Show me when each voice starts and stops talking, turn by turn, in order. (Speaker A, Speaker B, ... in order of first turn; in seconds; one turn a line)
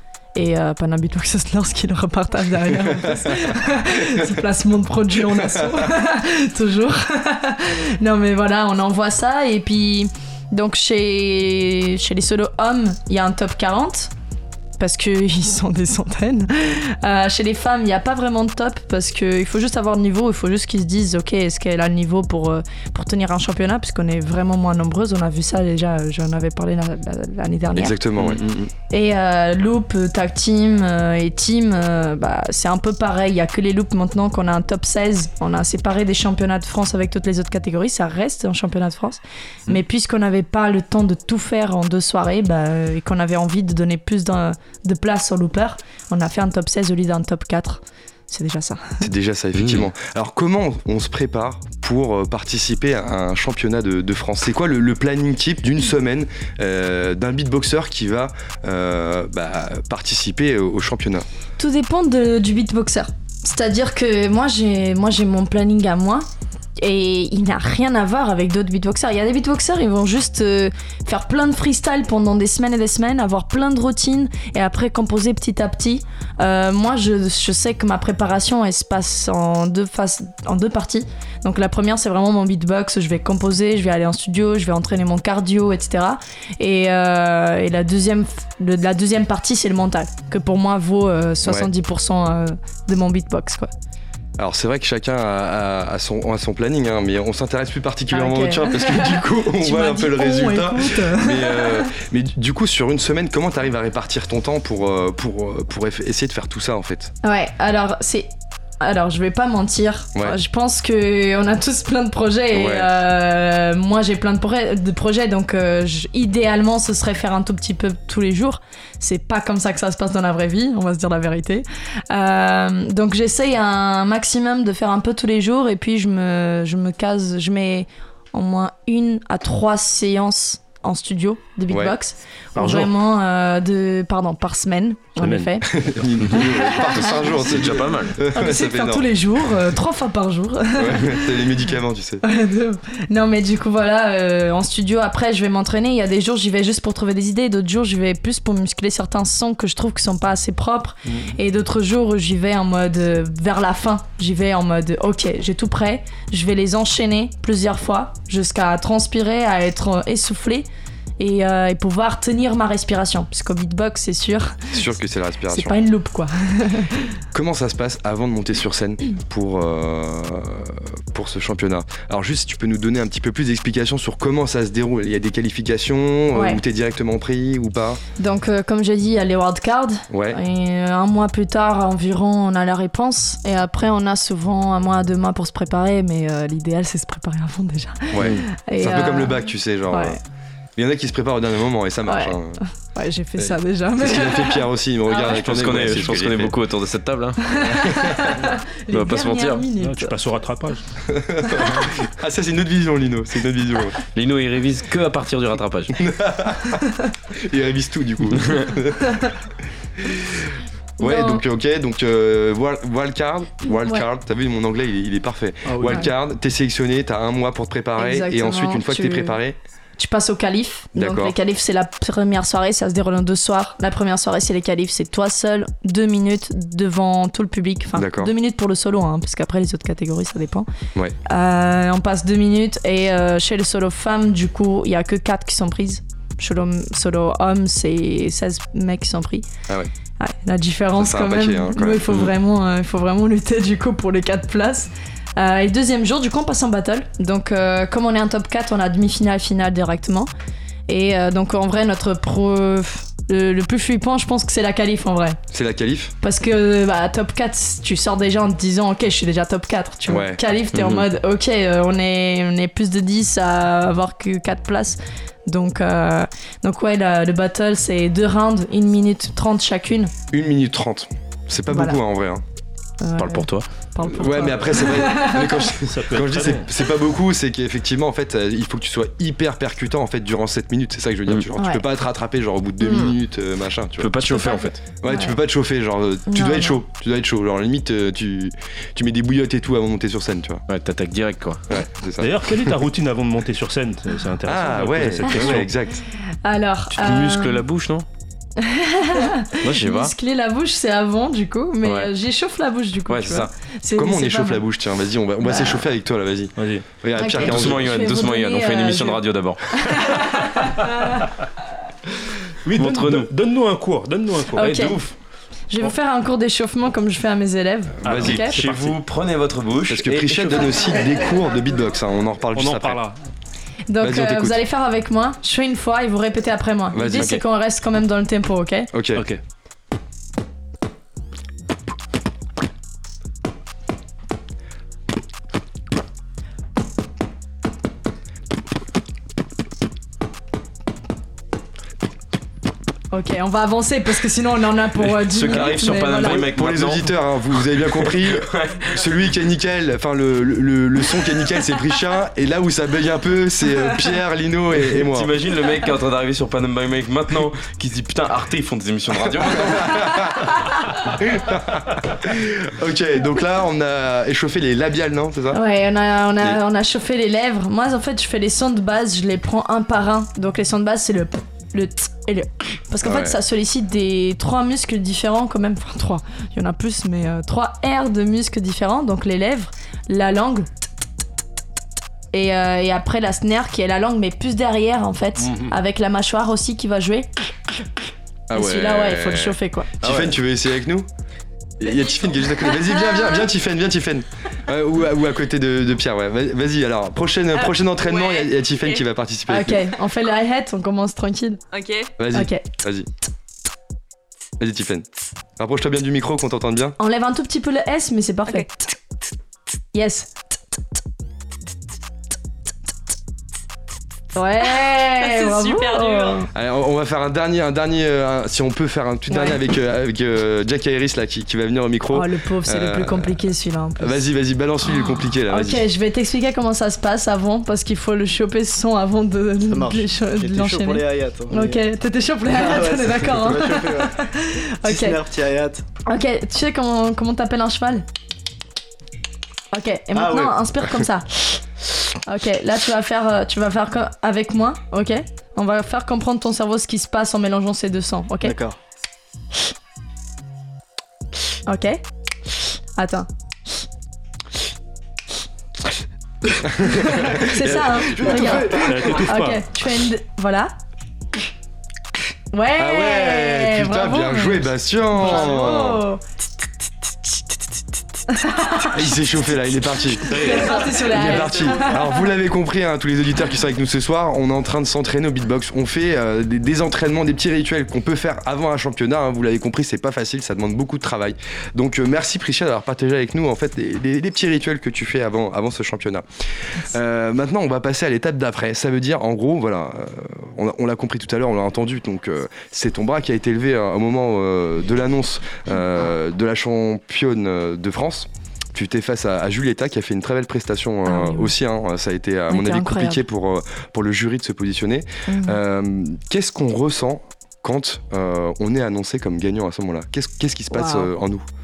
Speaker A: 0.3-14.1
Speaker B: 3.1-3.6
Speaker B: 5.4-5.9
Speaker A: 14.8-28.0
Speaker B: 27.7-28.4
Speaker A: 28.9-49.0
Speaker B: 49.0-61.3
Speaker C: 49.6-49.9
Speaker A: 61.6-66.3
Speaker A: 66.8-93.7
Speaker B: 91.5-91.7
Speaker B: 94.4-107.1
Speaker A: 98.1-101.9
Speaker A: 107.2-108.3
Speaker A: 108.8-135.7
Speaker B: 112.5-112.9
Speaker B: 131.7-131.9
Speaker D: 132.6-132.9
Speaker D: 135.2-135.7
Speaker B: 135.7-139.4
Speaker C: 136.2-138.2
Speaker A: 136.3-137.1
Speaker A: 138.3-141.3
Speaker B: 140.8-142.2
Speaker A: 142.2-160.7
Speaker A: 161.2-164.7
Speaker B: 164.7-165.8
Speaker A: 165.5-167.1
Speaker B: 167.3-178.0
Speaker A: 176.3-176.6
Speaker A: 178.2-190.2
Speaker B: 180.1-180.4
Speaker B: 188.1-190.2
Speaker B: 190.8-192.6
Speaker A: 192.1-194.7
Speaker B: 193.4-196.6
Speaker C: 195.1-198.1
Speaker D: 195.8-196.1
Speaker A: 197.6-200.2
Speaker C: 198.9-199.7
Speaker D: 199.8-200.8
Speaker B: 201.1-204.0
Speaker C: 204.1-206.0
Speaker B: 206.0-209.2
Speaker B: 210.1-219.6
Speaker A: 211.0-211.4
Speaker D: 215.7-216.1
Speaker A: 218.0-219.4
Speaker A: 220.0-230.7
Speaker B: 220.9-221.3
Speaker B: 227.9-228.3
Speaker A: 231.3-239.5
Speaker A: 240.2-250.3
Speaker B: 241.0-242.2
Speaker A: 250.9-255.4
Speaker B: 255.5-256.1
Speaker A: 256.2-270.1
Speaker B: 260.1-260.4
Speaker C: 260.7-261.1
Speaker B: 270.3-272.4
Speaker A: 271.7-272.0
Speaker A: 273.0-275.6
Speaker C: 273.2-273.7
Speaker B: 274.0-290.6
Speaker D: 275.9-276.7
Speaker A: 281.6-281.8
Speaker A: 282.8-283.1
Speaker C: 284.0-284.8
Speaker A: 285.1-285.4
Speaker A: 286.3-286.8
Speaker C: 290.7-291.6
Speaker B: 291.7-292.8
Speaker D: 292.2-295.6
Speaker B: 294.4-296.0
Speaker C: 295.3-295.7
Speaker A: 296.4-297.6
Speaker C: 296.9-298.1
Speaker A: 298.6-304.6
Speaker C: 299.6-300.1
Speaker C: 301.8-302.1
Speaker C: 303.1-303.5
Speaker B: 303.9-308.1
Speaker A: 305.4-305.8
Speaker D: 306.6-306.9
Speaker A: 307.2-309.2
Speaker C: 307.3-310.4
Speaker A: 309.7-311.3
Speaker D: 312.6-314.9
Speaker C: 312.8-313.3
Speaker A: 314.6-315.0
Speaker C: 314.6-315.1
Speaker A: 315.7-318.6
Speaker D: 318.0-318.6
Speaker B: 318.0-318.9
Speaker C: 318.2-320.9
Speaker B: 319.9-323.0
Speaker D: 322.6-323.2
Speaker A: 323.9-328.9
Speaker B: 324.0-324.6
Speaker B: 326.9-327.3
Speaker C: 327.2-327.4
Speaker B: 328.9-329.2
Speaker A: 343.1-346.4
Speaker C: 345.3-347.1
Speaker B: 346.2-355.3
Speaker C: 347.9-349.0
Speaker C: 354.9-360.5
Speaker B: 359.2-365.6
Speaker A: 365.5-380.7
Speaker B: 373.0-373.4
Speaker A: 382.3-387.3
Speaker D: 385.4-385.7
Speaker B: 388.5-391.1
Speaker A: 388.5-389.9
Speaker C: 390.0-390.3
Speaker B: 391.8-399.8
Speaker E: 398.0-399.0
Speaker A: 399.5-401.6
Speaker E: 401.7-402.1
Speaker B: 402.2-403.1
Speaker A: 402.3-402.6
Speaker B: 404.6-405.1
Speaker B: 405.6-406.9
Speaker A: 407.0-408.7
Speaker E: 408.5-408.9
Speaker A: 409.9-410.3
Speaker A: 414.4-416.5
Speaker E: 414.6-416.5
Speaker B: 416.5-423.4
Speaker A: 419.3-419.6
Speaker A: 422.1-424.2
Speaker B: 424.0-425.9
Speaker A: 424.9-435.2
Speaker F: 429.7-431.8
Speaker F: 432.5-434.1
Speaker F: 434.9-435.8
Speaker A: 436.1-438.1
Speaker A: 439.7-441.6
Speaker F: 440.1-440.5
Speaker A: 442.3-448.6
Speaker F: 448.4-448.8
Speaker A: 451.7-452.0
Speaker A: 453.0-453.3
Speaker B: 456.6-459.1
Speaker A: 457.0-460.7
Speaker D: 458.7-459.7
Speaker A: 462.5-466.2
Speaker B: 462.8-466.0
Speaker A: 468.3-469.0
Speaker B: 468.8-511.4
Speaker A: 470.2-472.2
Speaker C: 470.3-470.9
Speaker E: 471.3-471.7
Speaker A: 501.1-501.5
Speaker A: 502.5-503.2
Speaker A: 505.3-505.6
Speaker A: 510.7-511.1